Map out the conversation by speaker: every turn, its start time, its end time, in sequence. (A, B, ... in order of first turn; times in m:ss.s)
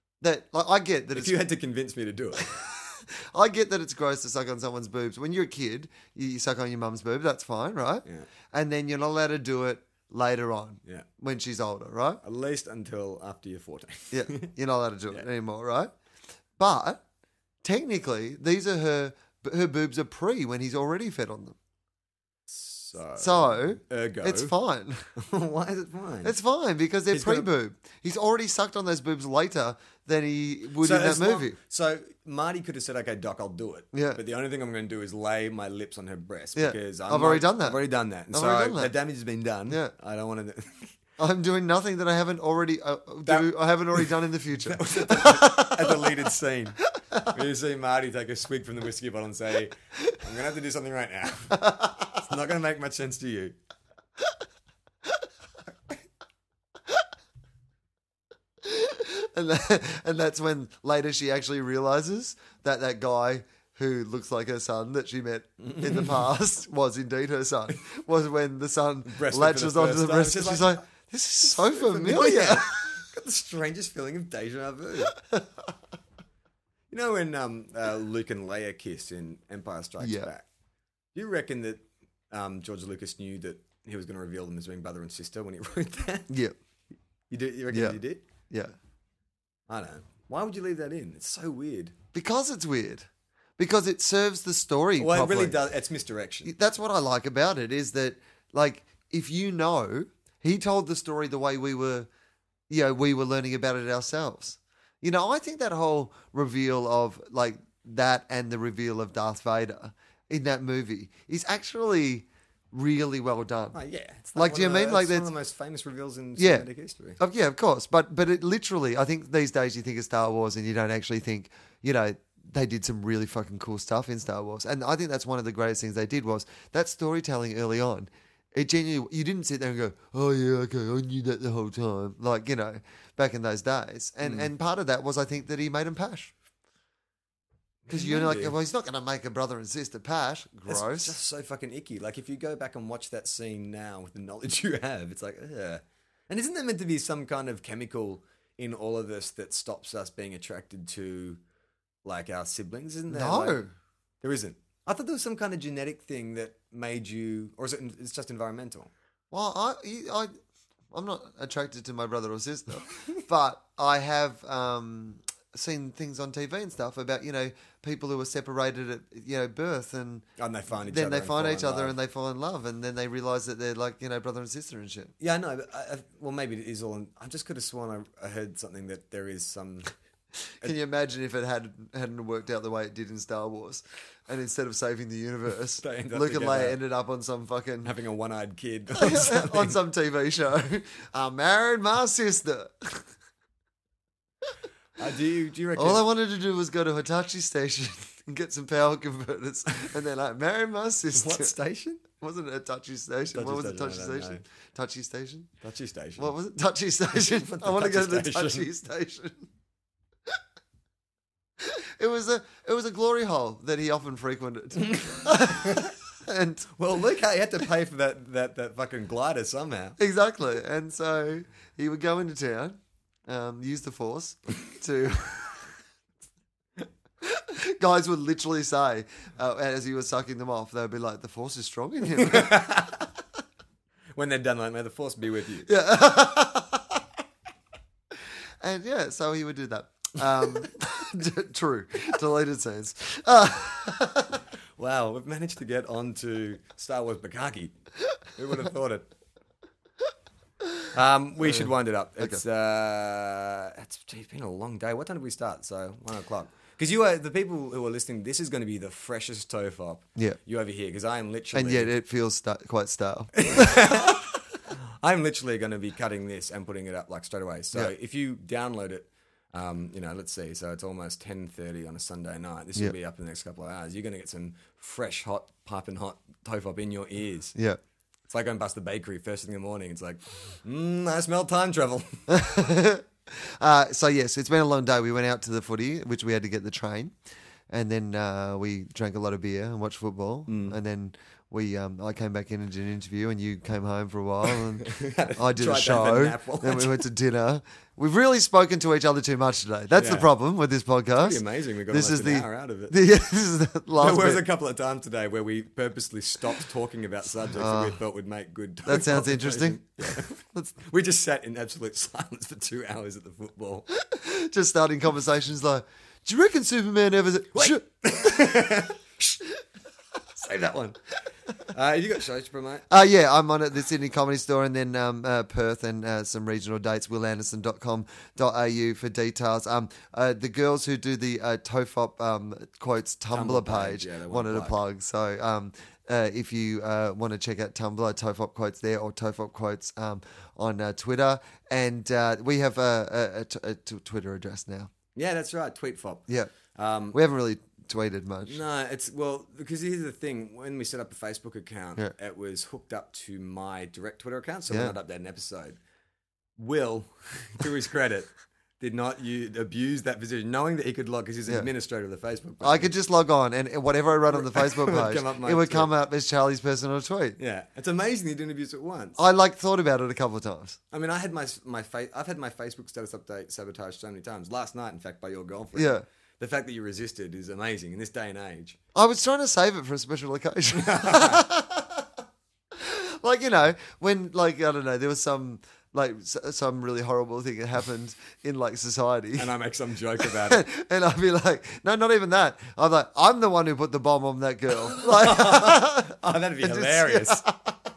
0:00.2-0:01.4 A
0:01.1-0:02.5 B
0:02.4-0:12.2 A
0:12.2-0:14.5 B
0:14.1-0:15.9 A
0:16.6-0:17.0 A
0:17.6-0:21.6 A
0:22.5-0:24.5 B
0:23.2-0:25.0 A
0:25.2-0:26.3 B
0:26.2-0:31.6 A
0:27.1-0:27.5 B
0:30.8-0:41.0 B
0:33.9-0:34.2 A
0:36.6-0:37.8 A
0:38.3-0:38.9 A
0:41.2-0:46.1 A
0:43.2-0:53.5 B
0:47.0-0:47.4 A
0:51.5-0:52.2 A
0:58.6-1:13.0 A
1:05.6-1:06.3 B
1:09.0-1:10.8 B
1:11.4-1:15.1 B
1:16.9-1:20.5 B
1:20.0-1:20.3 A
1:21.1-1:26.3 B
1:26.3-1:26.5 A
1:27.3-1:28.2 B
1:27.7-1:28.7 A
1:29.7-1:31.9 B
1:32.1-1:35.6 A
1:35.0-1:36.5 B
1:36.4-1:42.1 A
1:42.7-1:53.8 A
1:53.7-1:57.2 B
1:54.3-1:55.3 A
1:56.4-1:56.7 A
1:57.2-2:16.3 A
2:14.2-2:14.5 B
2:17.9-2:18.5 B
2:17.9-2:21.1 A
2:20.7-2:31.4 B
2:32.0-2:33.6 B
2:33.1-2:33.7 A
2:34.2-2:38.9 B
2:39.3-2:40.3 A
2:40.9-2:50.2 A
2:50.4-2:52.0 B
2:50.8-2:55.1 A
2:55.2-2:59.9 B
3:00.6-3:07.9 A
3:05.8-3:06.8 B
3:07.8-3:09.8 B
3:08.9-3:13.1 A
3:15.0-3:16.0 B
3:15.8-3:21.5 A
3:21.1-3:22.0 B
3:22.1-3:25.5 A
3:23.3-3:24.4 B
3:25.6-3:26.3 B
3:26.2-3:29.5 A
3:27.1-3:28.7 B
3:31.6-3:36.7 A
3:34.8-3:35.9 B
3:36.8-3:40.0 B
3:40.0-3:45.6 A
3:47.2-3:52.7 A
3:52.1-3:53.1 B
3:54.2-3:55.7 B
3:55.7-3:57.0 A
3:58.6-4:04.4 A
4:04.8-4:07.7 B
4:08.4-4:09.1 B
4:10.9-4:21.9 B
4:21.5-4:24.2 A
4:23.4-4:37.5 B
4:38.3-4:42.5 B
4:42.3-4:47.2 A
4:47.7-5:04.4 A
4:50.5-4:50.8 B
4:54.5-4:57.0 B
4:59.9-5:00.3 B
5:01.2-5:03.0 B
5:04.0-5:13.9 B
5:07.4-5:08.0 A
5:08.8-5:10.7 A
5:13.9-5:18.8 A
5:17.5-5:19.0 B
5:20.4-5:21.0 B
5:21.5-5:22.9 B
5:22.9-5:44.9 A
5:33.3-5:34.8 B
5:45.1-5:47.2 B
5:47.1-5:48.6 A
5:48.4-5:55.8 B
5:56.6-6:02.9 B
6:02.6-6:07.4 A
6:04.3-6:05.9 B
6:07.4-6:09.2 B
6:09.2-6:10.8 A
6:10.9-6:18.8 B
6:15.7-6:16.0 A
6:18.9-6:22.0 A
6:20.7-6:21.4 B
6:22.7-6:29.5 A
6:29.4-6:30.6 B
6:30.2-6:37.8 A
6:34.8-6:37.4 B